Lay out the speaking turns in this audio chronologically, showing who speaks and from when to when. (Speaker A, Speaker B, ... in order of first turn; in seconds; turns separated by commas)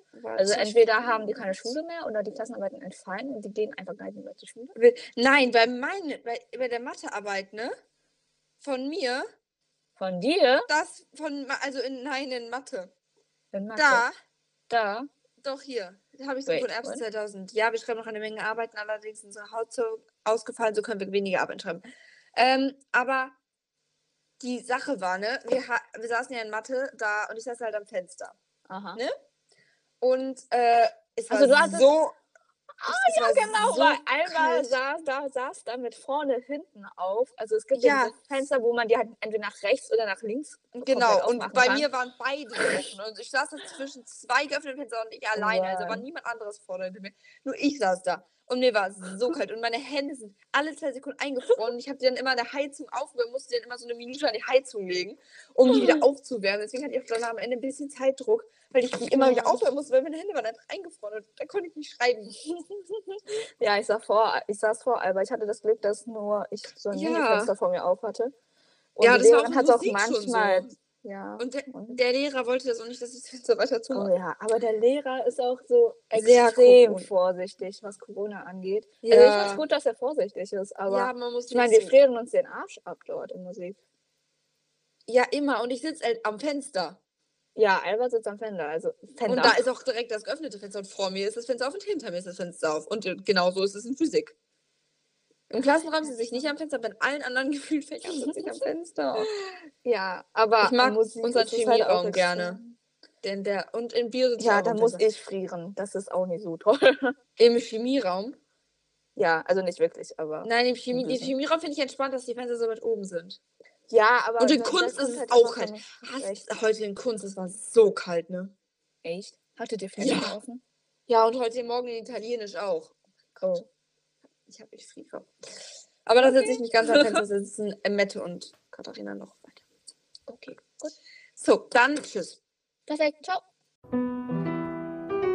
Speaker A: 0.1-1.7, Speaker B: 0.4-4.8, Speaker A: 4.8-7.7, Speaker A: 8.6-9.3, Speaker B: 10.0-10.7, Speaker A: 10.7-12.9, Speaker B: 13.5-14.1, Speaker A: 13.8-14.1, Speaker B: 14.7-15.1, Speaker A: 15.4-23.4, Speaker B: 16.5-17.0, Speaker A: 24.4-28.4, Speaker B: 28.7-29.0, Speaker A: 30.0-32.2, Speaker B: 31.3-32.0, Speaker B: 32.8-41.9, Speaker A: 32.9-34.8, Speaker A: 37.7-38.2, Speaker A: 40.8-62.3, Speaker B: 42.6-42.9, Speaker B: 45.4-46.0, Speaker B: 55.7-56.0, Speaker B: 59.1-59.6, Speaker B: 62.5-68.3, Speaker A: 66.9-67.5, Speaker B: 69.0-72.0, Speaker A: 69.0-70.7, Speaker A: 71.4-74.1, Speaker B: 73.9-83.8, Speaker A: 76.1-77.1, Speaker A: 79.0-79.7, Speaker A: 80.9-82.0, Speaker A: 85.1-87.0, Speaker B: 87.6-89.6, Speaker A: 89.3-94.3, Speaker A: 95.5-99.3, Speaker B: 96.1-96.5, Speaker B: 98.1-98.6, Speaker B: 99.1-102.8, Speaker A: 100.6-102.6, Speaker A: 103.2-105.0, Speaker B: 104.4-107.2, Speaker A: 107.4-108.4, Speaker B: 109.2-111.3, Speaker A: 110.4-113.4, Speaker B: 113.9-116.4, Speaker A: 114.4-118.5, Speaker B: 119.0-120.6, Speaker A: 120.0-120.4, Speaker A: 121.1-123.0, Speaker B: 123.4-123.7, Speaker A: 124.5-125.3, Speaker A: 126.1-129.6, Speaker B: 126.2-127.2, Speaker B: 130.3-130.9, Speaker A: 131.4-132.4, Speaker B: 132.9-133.4